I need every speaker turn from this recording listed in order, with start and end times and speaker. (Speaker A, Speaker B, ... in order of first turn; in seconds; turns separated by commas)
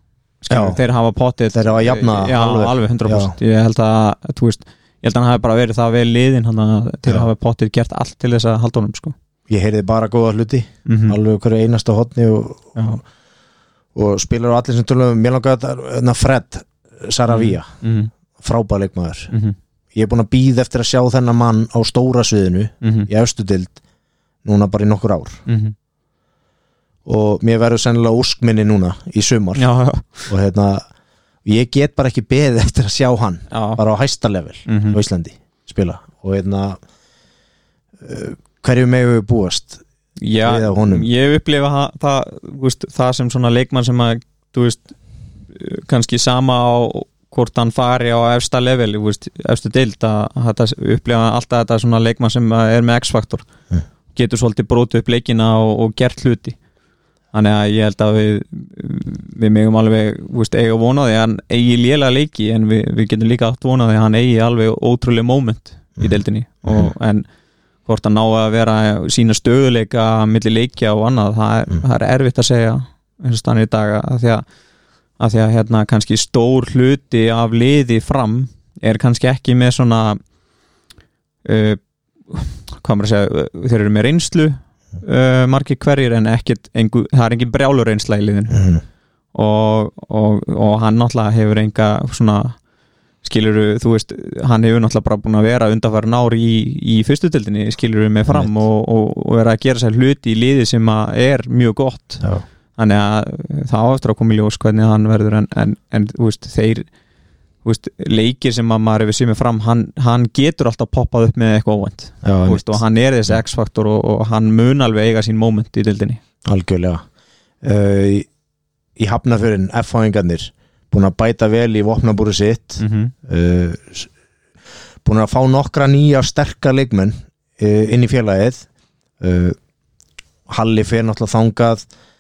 Speaker A: 0.4-9.2, Speaker B: 0.5-0.8, Speaker B: 1.5-3.4, Speaker B: 9.5-12.8, Speaker A: 10.9-11.2, Speaker A: 12.8-13.0, Speaker B: 13.9-17.7, Speaker A: 17.3-18.1, Speaker B: 18.4-19.3, Speaker B: 19.9-23.8, Speaker A: 22.8-23.1, Speaker B: 24.4-25.4, Speaker A: 25.5-25.8, Speaker B: 27.1-29.6, Speaker A: 29.6-30.3, Speaker B: 30.3-30.9, Speaker B: 31.4-36.8, Speaker A: 33.5-33.8, Speaker A: 34.7-35.0, Speaker B: 38.0-39.8, Speaker A: 40.2-44.9, Speaker B: 40.4-41.1, Speaker A: 45.5-53.5, Speaker A: 54.1-56.6, Speaker A: 57.3-67.3, Speaker B: 66.7-66.9, Speaker A: 67.9-74.5, Speaker A: 75.2-80.2, Speaker A: 81.5-88.7, Speaker B: 88.5-88.8, Speaker A: 89.3-92.6, Speaker A: 93.2-102.2, Speaker A: 102.8-106.9, Speaker A: 107.6-116.2, Speaker B: 112.2-113.4, Speaker B: 116.5-117.0, Speaker B: 117.6-118.3, Speaker B: 119.0-124.1, Speaker A: 122.8-123.1, Speaker B: 125.0-128.7, Speaker B: 129.2-129.6, Speaker B: 130.5-131.8